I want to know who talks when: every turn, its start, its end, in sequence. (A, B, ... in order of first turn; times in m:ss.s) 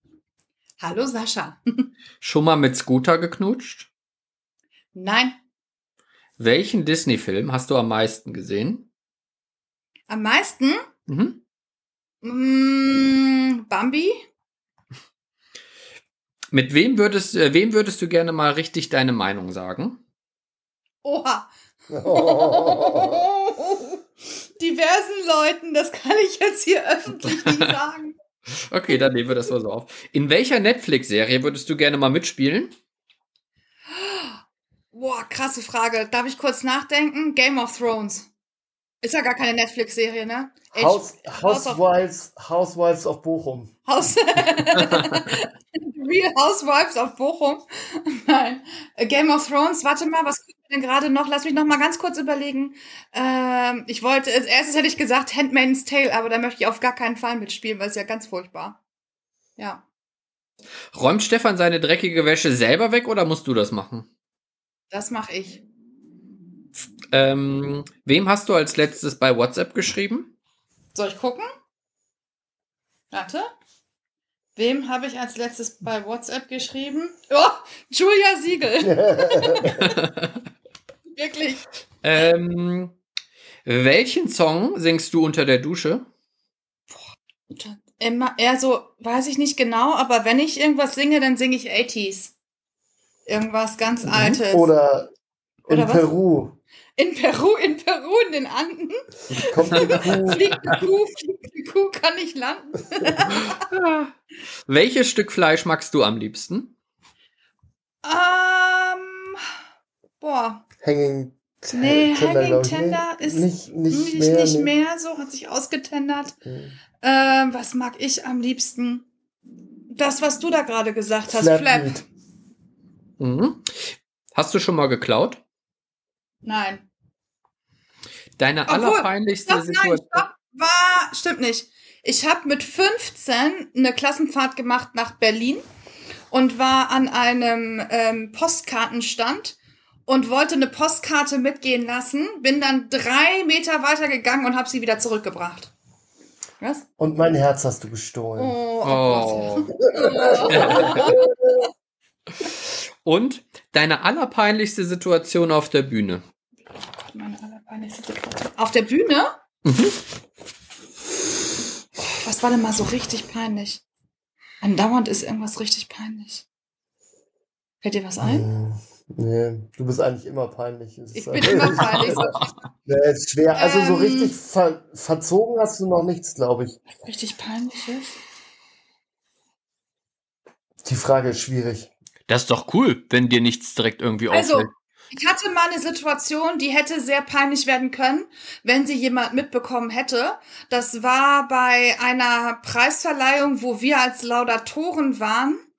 0:00.8-0:01.9 A
0:02.2-0:03.9 B
0:04.9-0:05.4 A
0:06.4-0:08.9 B
0:10.1-0:10.8 A
0:11.1-0:11.4 B
0:12.2-0:14.2 A
0:16.5-0:20.0 B
0:21.0-0:21.5 A
0:21.9-0:23.2 C
0:22.0-0:24.0 A
0:24.6-0:28.2 A
0:27.4-0:27.7 B
0:28.7-0:32.7 B
0:33.9-0:34.4 A
0:34.9-0:38.3 A
0:39.0-0:41.8 A
0:40.7-0:43.7 C
0:43.8-0:58.8 A
0:59.6-0:59.8 A
1:00.9-1:04.1 B
1:04.9-1:05.6 A
1:07.1-1:10.3 B
1:10.9-1:11.5 A
1:13.1-1:13.5 A
1:14.6-1:19.8 A
1:18.8-1:19.8 C
1:19.7-1:20.4 B
1:21.1-1:21.6 A
1:22.0-1:23.0 B
1:23.6-1:26.0 B
1:26.9-1:32.3 A
1:33.2-1:34.7 A
1:34.1-1:34.4 B
1:34.5-1:35.1 C
1:35.7-1:36.1 A
1:35.7-1:36.6 C
1:37.0-1:43.6 A
1:39.4-1:40.4 C
1:43.3-1:44.1 B
1:44.7-1:46.7 B
1:48.0-1:49.4 A
1:50.2-1:50.6 A
1:50.8-1:54.7 C
1:51.7-1:56.4 A
1:56.4-1:56.8 C
1:57.0-1:59.1 A
1:59.9-2:02.0 A
2:01.3-2:02.0 C
2:03.2-2:05.4 B
2:06.4-2:06.8 A
2:08.4-2:10.2 B
2:08.7-2:15.6 A
2:16.3-2:25.7 A
2:26.6-2:26.8 A
2:27.0-2:28.6 C
2:28.4-2:31.4 A
2:28.8-2:29.7 B
2:29.9-2:31.2 C
2:30.4-2:31.1 B
2:32.4-2:36.2 B
2:37.0-2:39.3 A
2:39.6-2:39.9 B
2:42.1-2:43.8 A
2:44.6-2:46.4 A
2:47.8-2:48.5 A
2:48.2-2:52.2 C
2:51.1-2:52.5 A
2:51.6-2:52.6 B
2:52.8-2:56.8 C
2:53.5-2:54.4 A
2:56.9-2:58.2 A
3:00.8-3:01.9 C
3:02.3-3:04.7 B
3:04.3-3:15.6 A